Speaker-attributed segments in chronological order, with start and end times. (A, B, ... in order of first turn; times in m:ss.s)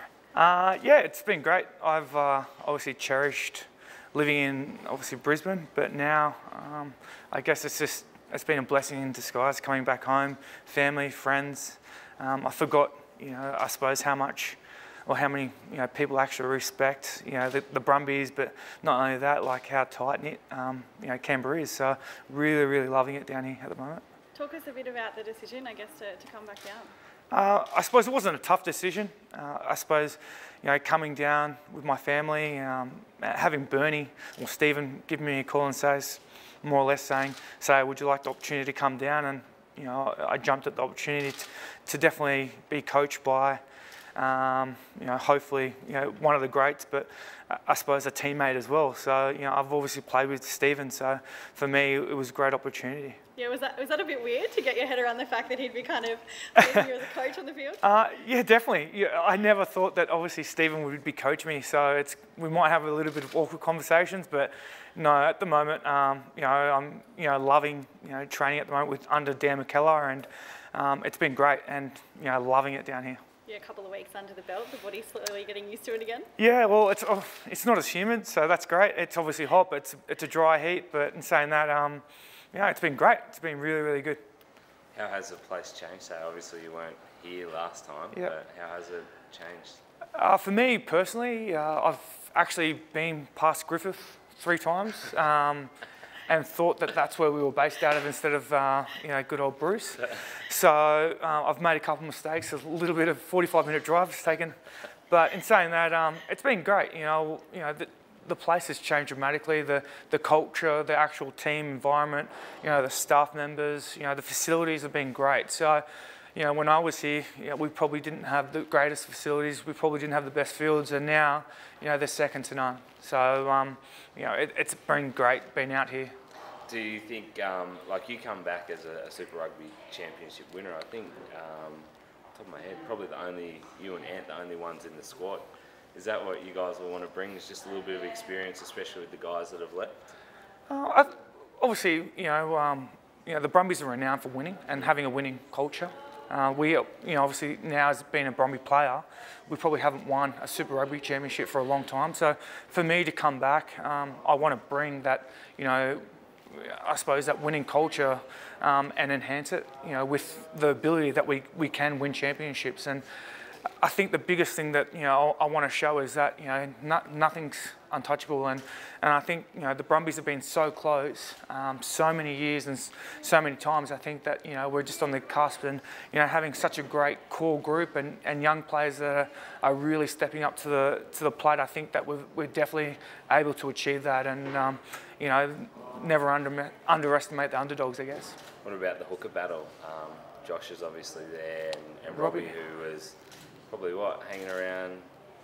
0:00.3-0:24.0 A
0:24.3-0:26.9 B
0:27.3-0:43.6 A
0:44.1-0:53.2 A
0:53.4-0:57.8 B
0:57.8-1:13.2 A
1:13.4-1:16.3 B
1:16.4-1:24.2 A
1:24.9-1:29.8 C
1:30.2-1:35.7 A
1:36.3-1:44.5 A
1:45.1-1:55.8 A
1:56.3-2:06.1 A
2:06.7-2:20.1 C
2:20.7-2:43.0 A
2:43.8-3:08.4 A
3:08.6-3:13.2 C
3:12.1-3:12.5 A
3:13.7-3:15.0 C